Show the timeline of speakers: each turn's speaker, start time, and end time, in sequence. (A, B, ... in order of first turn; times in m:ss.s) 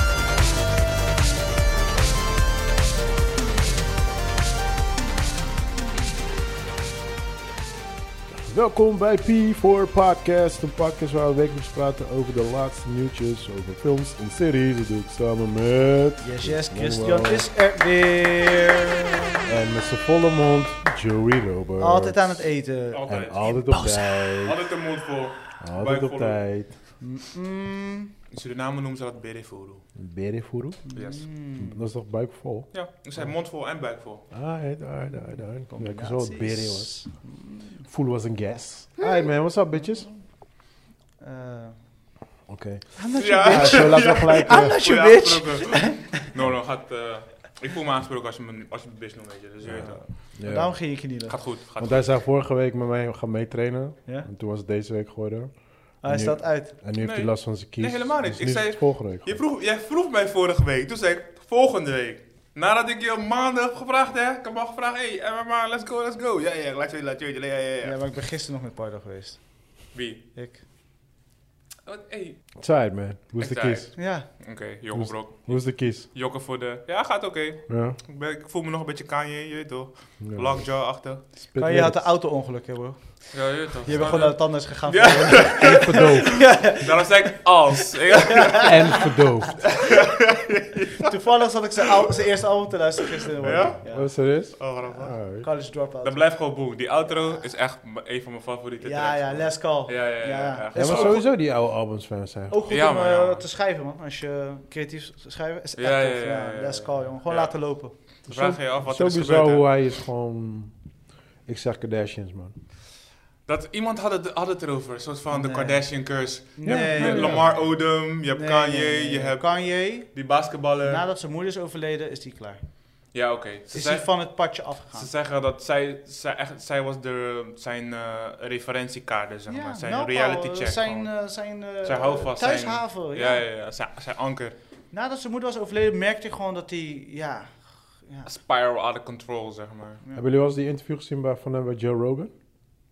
0:08.5-0:17.5 A
0:16.2-0:19.5 B
0:19.5-0:22.4 A
0:21.8-0:24.3 B
0:22.9-0:23.5 C
0:23.0-0:24.6 A
0:24.4-0:26.4 C
0:25.6-0:26.7 A
0:27.0-0:28.1 B
0:28.3-0:29.8 C
0:30.0-0:30.8 A
0:30.8-0:31.8 B
0:31.0-0:31.2 C
0:31.6-0:33.3 A
0:32.7-0:34.2 C
0:34.3-0:37.0 A
0:35.7-0:37.8 B
0:37.8-0:40.0 A
0:39.8-0:40.2 B
0:41.2-0:41.8 B
0:42.5-0:44.8 A
0:43.0-0:46.3 B
0:43.1-0:50.1 C
0:49.7-0:50.8 A
0:49.7-0:51.4 B
0:51.3-0:52.0 C
0:51.8-0:55.5 A
0:56.0-0:56.8 B
0:56.0-0:59.3 A
0:57.0-1:08.0 C
1:07.8-1:09.4 B
1:09.9-1:10.2 C
1:10.3-1:10.6 B
1:11.8-1:12.4 C
1:12.6-1:13.9 A
1:13.4-1:21.2 C
1:14.0-1:14.3 B
1:14.9-1:16.1 A
1:17.7-1:18.0 A
1:20.2-1:20.5 A
1:21.5-1:22.0 A
1:21.6-1:27.3 B
1:23.3-1:29.0 C
1:25.6-1:26.4 A
1:27.9-1:29.7 B
1:28.6-1:29.7 A
1:29.7-1:31.1 C
1:31.0-1:34.1 B
1:33.4-1:33.8 C
1:33.5-1:35.5 A
1:34.6-1:35.1 C
1:35.4-1:36.2 B
1:36.0-1:41.2 C
1:38.8-1:41.2 B
1:40.7-1:42.6 A
1:42.5-1:47.9 B
1:42.7-1:43.4 C
1:45.8-1:47.6 C
1:48.2-1:49.7 C
1:48.3-1:50.7 A
1:51.5-1:52.6 A
1:53.5-2:01.0 C
1:55.3-1:55.8 B
1:56.5-1:57.7 B
1:56.6-1:57.4 A
1:58.3-2:00.1 B
2:00.8-2:02.6 B
2:03.1-2:11.2 C
2:03.7-2:05.1 B
2:09.5-2:13.4 B
2:11.8-2:14.6 C
2:14.9-2:18.3 B
2:18.2-2:20.0 C
2:20.2-2:22.3 A